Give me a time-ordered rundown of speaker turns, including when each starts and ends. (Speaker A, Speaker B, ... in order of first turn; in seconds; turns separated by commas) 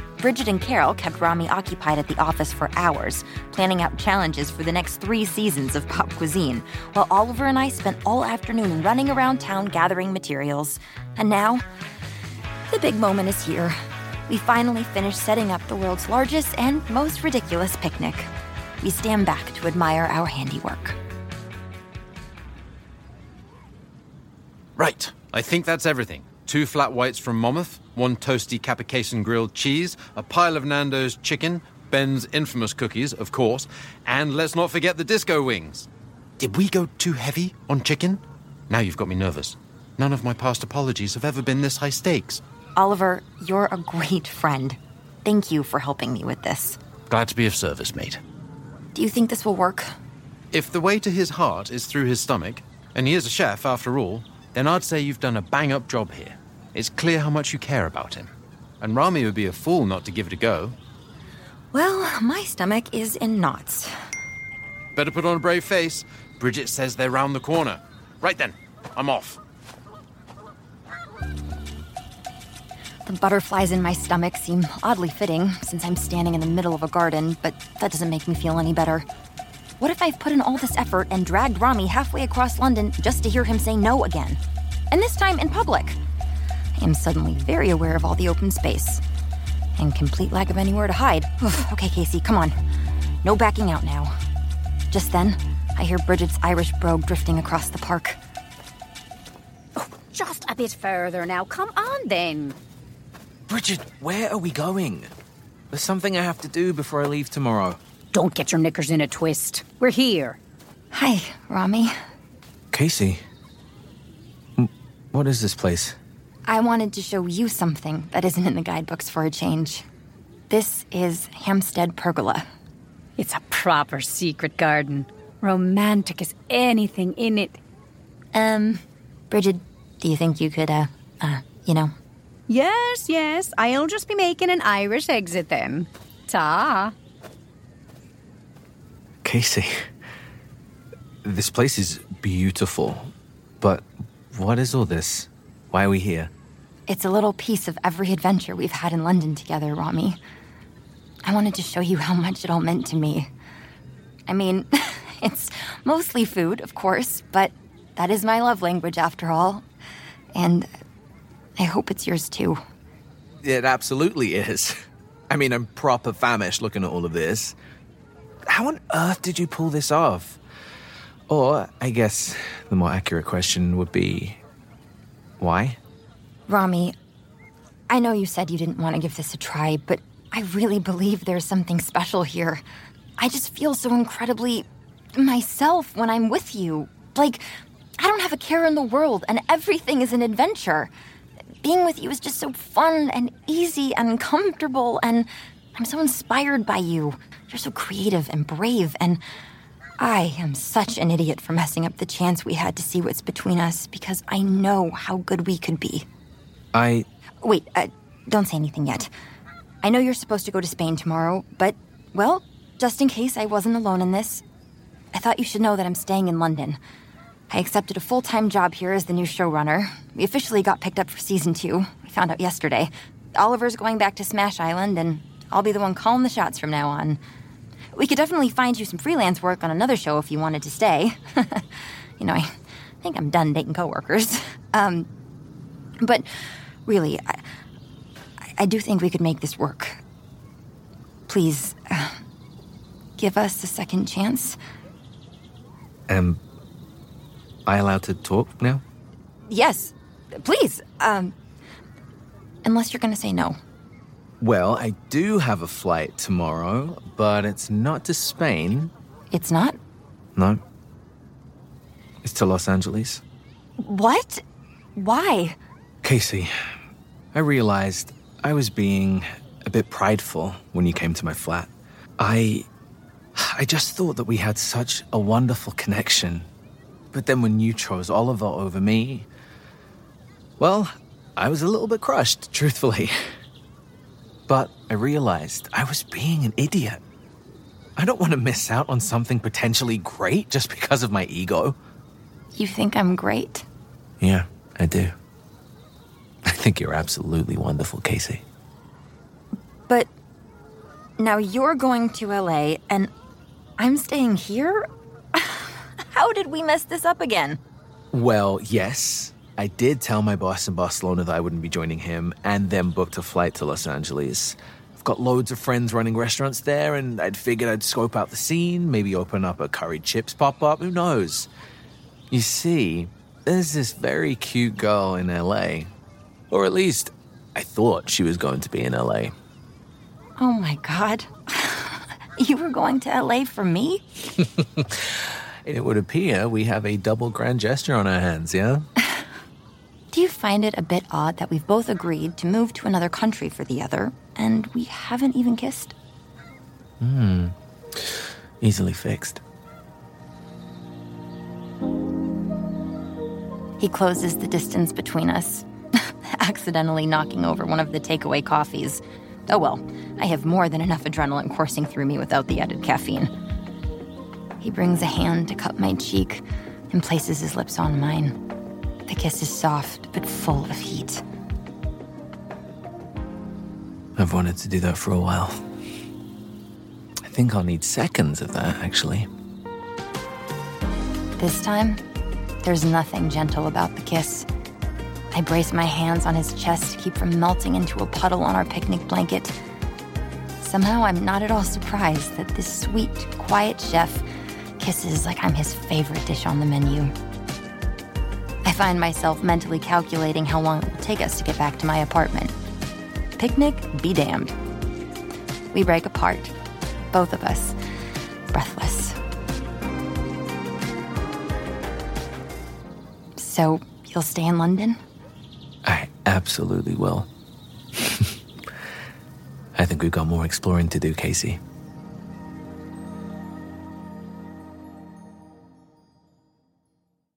Speaker A: 0.2-11.6, Speaker A: 12.7-18.3, Speaker A: 18.8-21.0, Speaker B: 24.8-35.9, Speaker B: 36.4-42.4, Speaker A: 42.8-46.8, Speaker B: 47.1-48.2, Speaker A: 48.9-49.9, Speaker B: 50.5-60.8, Speaker A: 61.7-63.9, Speaker B: 64.9-69.4, Speaker A: 73.0-79.0, Speaker A: 79.8-84.4, Speaker A: 84.9-86.0, Speaker A: 86.8-89.0, Speaker A: 89.8-92.6, Speaker A: 93.2-94.2, Speaker A: 94.9-98.2, Speaker C: 99.8-102.6, Speaker D: 103.5-105.1, Speaker D: 105.7-107.8, Speaker C: 108.1-110.4, Speaker A: 110.9-111.9, Speaker D: 112.7-113.2, Speaker D: 114.6-116.0, Speaker A: 116.5-119.8, Speaker A: 120.5-122.5, Speaker C: 123.2-127.6, Speaker A: 128.3-131.9, Speaker C: 132.5-136.9, Speaker D: 139.2-139.9, Speaker D: 141.2-146.3, Speaker A: 146.9-150.2, Speaker A: 151.2-153.3, Speaker A: 154.3-159.6, Speaker A: 160.3-160.7, Speaker A: 161.6-162.6, Speaker D: 163.4-164.8, Speaker D: 165.3-167.5, Speaker D: 168.5-170.4, Speaker D: 171.3-174.4, Speaker D: 175.4-175.8, Speaker A: 176.5-176.9, Speaker A: 177.9-182.6, Speaker A: 183.2-187.4, Speaker A: 188.0-190.9, Speaker A: 191.6-199.2, Speaker A: 200.0-206.1, Speaker D: 206.7-207.1, Speaker A: 207.4-209.1, Speaker A: 209.8-214.4, Speaker A: 215.1-216.8, Speaker A: 217.5-227.2, Speaker A: 227.9-231.7, Speaker A: 232.2-235.1, Speaker A: 236.0-236.3, Speaker A: 236.8-237.4, Speaker A: 238.6-240.0, Speaker A: 241.3-242.2, Speaker A: 243.2-244.6, Speaker D: 246.1-246.4, Speaker D: 247.7-248.8, Speaker A: 249.5-251.3, Speaker A: 252.6-253.6, Speaker D: 254.4-258.9, Speaker A: 259.3-259.8, Speaker D: 260.4-260.6, Speaker D: 262.2-263.2, Speaker A: 263.8-264.4, Speaker A: 264.9-265.6, Speaker D: 266.0-266.7, Speaker D: 267.3-272.7, Speaker D: 273.3-276.5, Speaker D: 277.1-279.3, Speaker D: 280.6-283.3, Speaker D: 284.5-287.0, Speaker D: 288.0-291.8, Speaker A: 292.5-293.6, Speaker D: 294.2-295.1, Speaker D: 296.4-298.4, Speaker A: 301.2-303.1, Speaker A: 303.8-307.6, Speaker D: 308.1-321.5, Speaker D: 322.3-325.9, Speaker D: 326.5-329.3, Speaker A: 330.4-334.0, Speaker D: 334.4-338.9, Speaker A: 340.1-345.9, Speaker D: 347.0-349.4, Speaker A: 353.8-363.3, Speaker A: 364.6-368.4, Speaker A: 369.1-371.2, Speaker D: 374.1-375.6, Speaker D: 377.2-379.3, Speaker A: 381.4-382.0, Speaker A: 382.6-384.4, Speaker A: 385.3-389.5, Speaker A: 390.6-394.2, Speaker A: 394.8-397.1, Speaker A: 398.6-402.5, Speaker A: 403.4-404.6, Speaker A: 405.7-406.5, Speaker A: 407.1-407.8, Speaker A: 408.5-409.2, Speaker A: 413.4-415.0, Speaker D: 415.8-417.3, Speaker D: 417.9-418.4, Speaker D: 419.7-421.6